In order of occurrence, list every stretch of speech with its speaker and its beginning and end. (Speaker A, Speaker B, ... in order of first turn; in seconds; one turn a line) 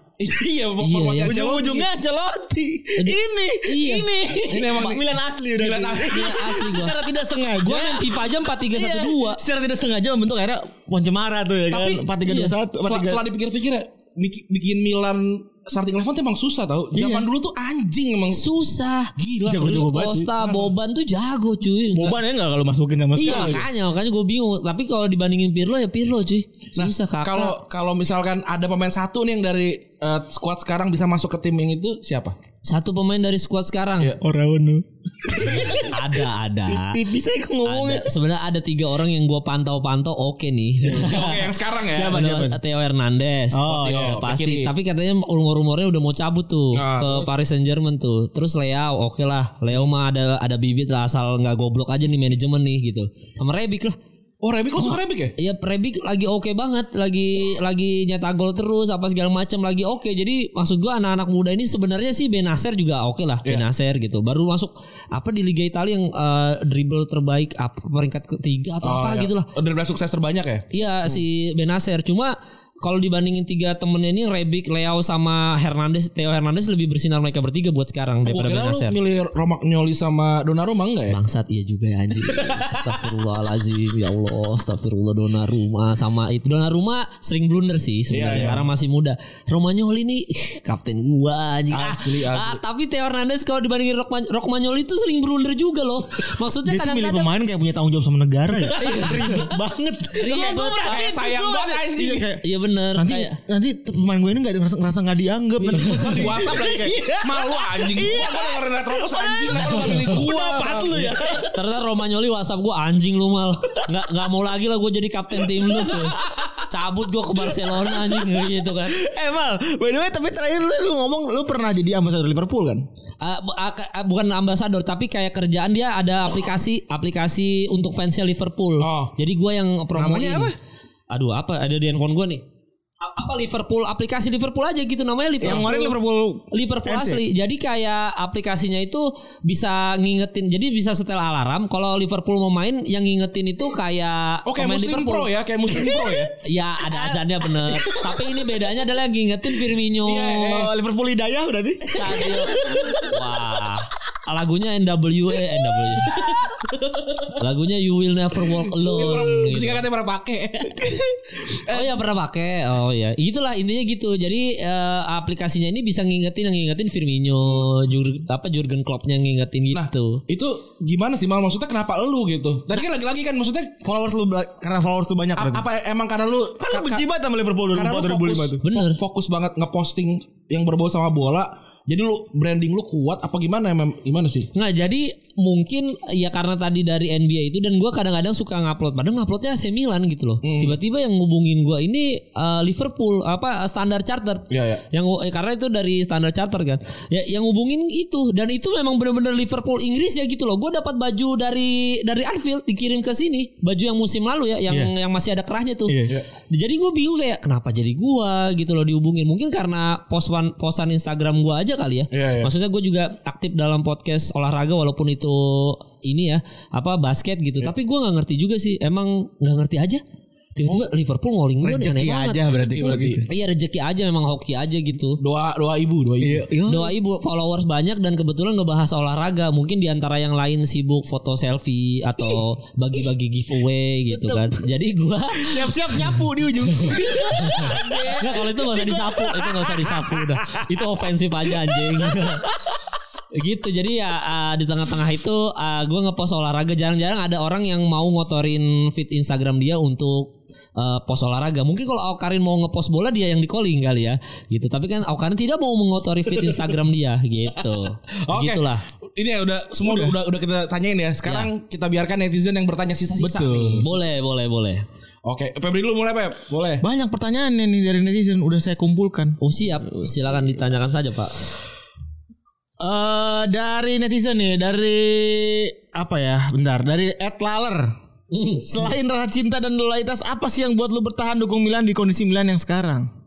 Speaker A: 0.2-1.9
Speaker B: 0.8-1.3
Speaker C: 1.2-13.2
Speaker B: 3.0-4.1
Speaker A: 4.5-6.4
Speaker B: 6.1-6.9
Speaker B: 7.6-9.4
Speaker A: 11.7-12.1
Speaker B: 12.2-12.5
Speaker A: 12.8-18.4
Speaker C: 16.9-17.3
Speaker B: 18.3-22.1
Speaker A: 19.1-20.7
Speaker C: 19.5-20.3
Speaker C: 21.9-23.6
Speaker B: 23.1-27.5
Speaker A: 23.2-23.6
Speaker A: 26.8-32.4
Speaker B: 32.6-34.1
Speaker C: 34.2-38.1
Speaker B: 35.7-37.0
Speaker B: 37.6-41.5
Speaker C: 40.8-41.2
Speaker A: 40.9-42.3
Speaker C: 41.9-42.6
Speaker B: 42.1-54.0
Speaker C: 43.5-44.2
Speaker A: 43.7-44.7
Speaker A: 46.7-47.3
Speaker A: 54.4-55.3
Speaker B: 54.8-69.5
Speaker A: 68.8-71.2
Speaker B: 70.7-79.0
Speaker A: 78.2-81.2
Speaker B: 81.1-97.3
Speaker A: 88.1-88.7
Speaker A: 91.7-92.6
Speaker C: 96.6-102.4
Speaker B: 98.7-99.5
Speaker B: 100.2-101.0
Speaker A: 100.3-102.2
Speaker B: 102.4-103.4
Speaker C: 103.0-111.5
Speaker A: 105.7-111.2
Speaker B: 105.8-106.2
Speaker B: 111.5-116.2
Speaker C: 115.5-116.5
Speaker B: 116.7-119.0
Speaker C: 117.6-122.8
Speaker B: 123.2-130.5
Speaker A: 128.8-129.1
Speaker A: 130.0-130.5
Speaker B: 131.1-132.4
Speaker B: 133.0-135.7
Speaker C: 135.4-137.2
Speaker A: 135.4-135.9
Speaker B: 136.5-145.3
Speaker A: 144.4-146.3
Speaker B: 146.4-150.6
Speaker C: 146.9-148.3
Speaker A: 150.0-150.7
Speaker C: 150.3-153.1
Speaker B: 151.9-156.2
Speaker C: 156.0-156.7
Speaker B: 157.3-159.8
Speaker A: 158.8-160.9
Speaker C: 160.8-161.1
Speaker A: 161.5-162.0
Speaker B: 161.7-170.2
Speaker A: 169.7-173.7
Speaker C: 173.8-175.6
Speaker A: 175.3-177.1
Speaker C: 176.6-178.6
Speaker A: 177.7-184.5
Speaker B: 178.6-179.0
Speaker B: 184.5-205.9
Speaker A: 190.4-190.8
Speaker A: 194.5-194.8
Speaker C: 205.9-206.2
Speaker B: 206.5-220.0
Speaker A: 212.1-212.5
Speaker B: 220.6-222.4
Speaker C: 221.6-223.3
Speaker A: 222.6-223.2
Speaker B: 223.3-225.2
Speaker A: 225.2-226.4
Speaker C: 226.2-226.9
Speaker B: 226.7-236.1
Speaker C: 234.1-234.6
Speaker C: 235.4-240.5
Speaker B: 236.9-242.5
Speaker C: 241.5-242.4
Speaker B: 243.3-258.8
Speaker A: 258.2-263.9
Speaker C: 259.8-260.1
Speaker C: 263.2-263.8
Speaker B: 263.8-264.8
Speaker A: 265.2-266.8
Speaker C: 266.8-269.4
Speaker B: 269.4-271.4
Speaker C: 272.8-277.9
Speaker B: 278.3-278.9
Speaker C: 278.6-283.1